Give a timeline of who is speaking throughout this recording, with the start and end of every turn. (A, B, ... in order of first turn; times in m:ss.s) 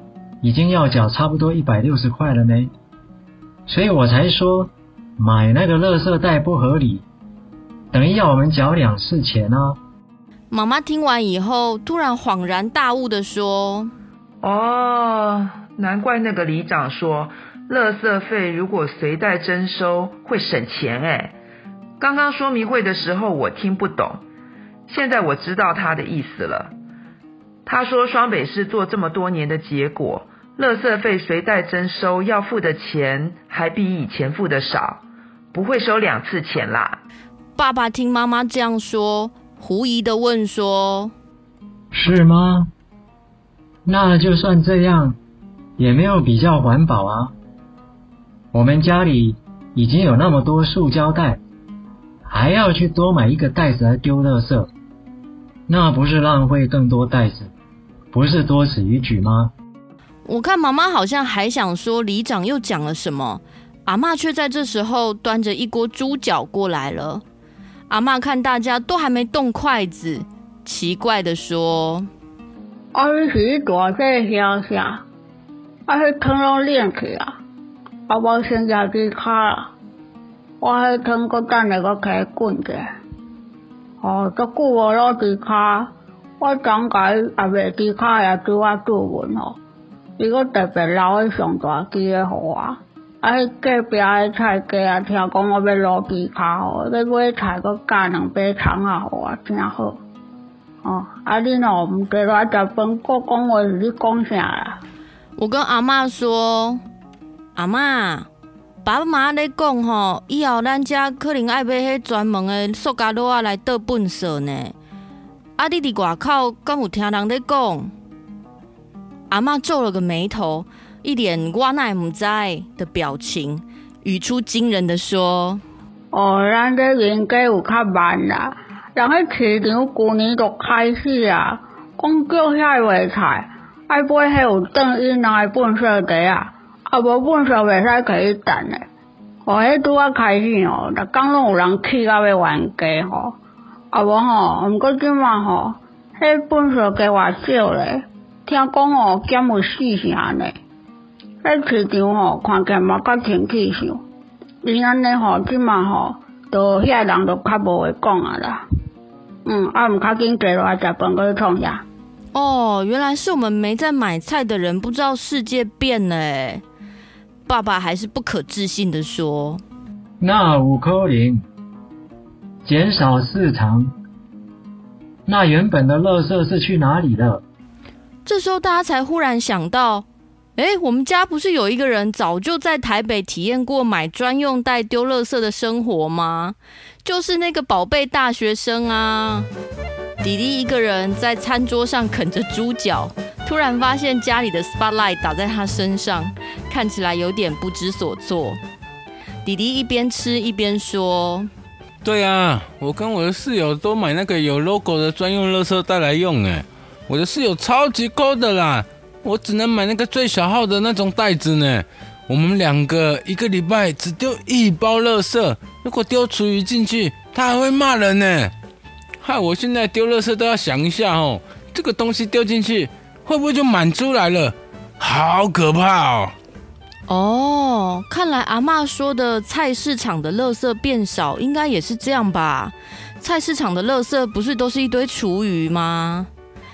0:00.4-0:02.7 A
0:03.7-0:07.0 A
0:07.9-0:09.8 A
0:10.5-0:13.9 B
0:14.4-0:21.4 C
0:22.0-0:24.2 C
0:24.9-0:26.7 C
0:27.6-0:37.0 C
0:37.6-0:41.1 B
0:41.9-0:42.7 A
0:43.8-0:45.2 A
0:45.8-0:47.3 A
0:48.5-0:51.4 A
0:52.2-0:54.7 A
0:55.7-0:57.5 A
0:58.1-0:59.5 A
1:00.2-1:07.2 B
1:07.9-1:12.1 B
1:12.9-1:15.0 D
1:15.9-1:17.4 D
1:18.1-1:19.7 D
1:20.6-1:22.8 D
1:24.0-1:29.6 D
1:30.2-1:40.0 D
1:40.8-1:44.8 D
1:45.4-1:46.8 B
1:47.6-1:48.3 B
1:48.8-1:54.7 B
1:55.6-1:57.9 B
1:59.3-2:05.6 B
2:06.1-2:18.8 D
2:19.4-2:23.3 D
2:23.9-2:30.5 D
2:31.4-2:34.0 D
2:34.6-2:38.6 D
2:39.4-2:41.8 D
2:42.3-2:46.6 B
2:47.4-2:49.6 B
2:50.2-2:51.4 A
2:52.6-2:53.9 A
2:55.2-2:57.4 A
2:58.2-3:00.0 B
3:00.6-3:09.5 B
3:10.2-3:18.6 B
3:19.4-3:21.5 B
3:22.0-3:38.5 E
3:39.2-3:46.3 E
3:47.1-3:56.3 B